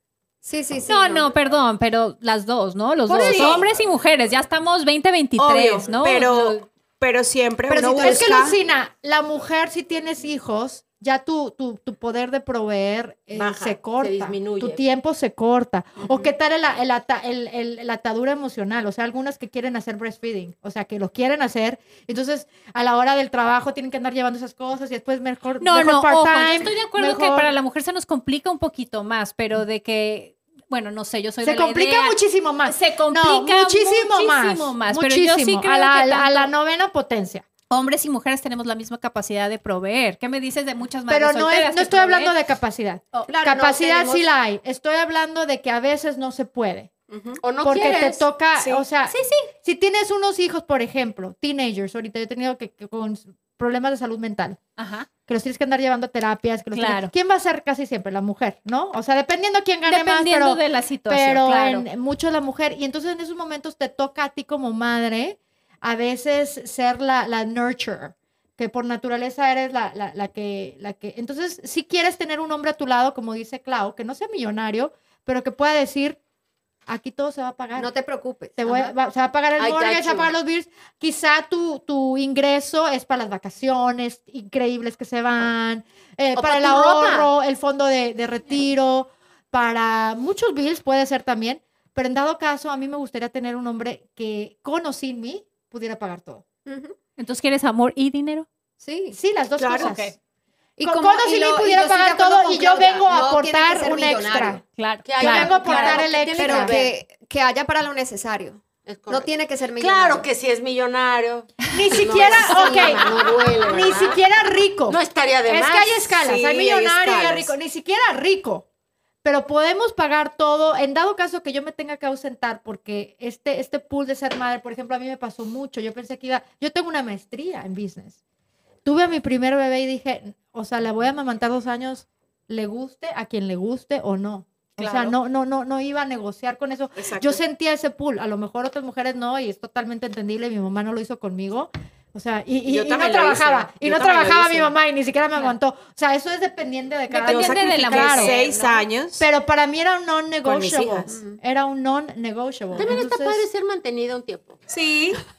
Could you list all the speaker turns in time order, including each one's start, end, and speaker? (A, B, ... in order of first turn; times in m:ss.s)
0:00.4-0:01.3 A
0:00.9-0:06.6 B
0:03.1-0:03.6 C
0:03.1-0:03.6 D
0:05.4-0:08.6 D
0:07.7-0:08.4 A
0:07.7-0:27.5 E
0:13.3-0:13.8 D
0:14.0-0:14.8 C
0:25.6-0:36.5 B
0:31.4-0:37.4 E
0:37.7-0:42.3 B
0:41.1-0:46.9 E
0:43.3-0:44.3 A
0:47.1-0:47.4 D
0:47.4-0:48.2 C
0:47.6-0:54.6 E
0:48.6-0:48.8 D
0:49.1-0:49.5 B
0:54.8-0:55.1 B
0:55.2-1:16.2 E
0:56.7-0:57.1 B
0:59.9-1:01.8 B
1:16.9-1:17.9 E
1:17.8-1:18.9 A
1:18.6-1:36.4 E
1:19.6-1:20.3 C
1:26.4-1:27.2 A
1:26.5-1:27.2 C
1:36.6-1:37.0 A
1:37.2-1:38.5 B
1:38.8-1:39.2 A
1:39.1-1:40.1 E
1:39.6-1:40.0 D
1:39.8-1:40.1 B
1:40.8-1:44.6 A
1:40.8-1:44.6 E
1:44.7-1:46.0 B
1:45.0-1:46.9 C
1:45.2-1:46.8 E
1:45.4-1:50.2 A
1:48.8-1:54.2 C
1:51.7-1:58.6 E
1:51.9-1:54.2 A
1:54.9-1:56.2 C
1:56.2-1:57.5 D
1:59.2-2:08.2 E
2:08.8-2:28.4 E
2:14.8-2:15.2 B
2:17.0-2:17.4 D
2:22.7-2:24.8 D
2:27.1-2:28.8 B
2:27.3-2:29.3 D
2:29.2-2:33.4 E
2:30.4-2:31.2 D
2:31.1-2:31.4 A
2:32.7-2:34.6 C
2:34.7-2:35.2 D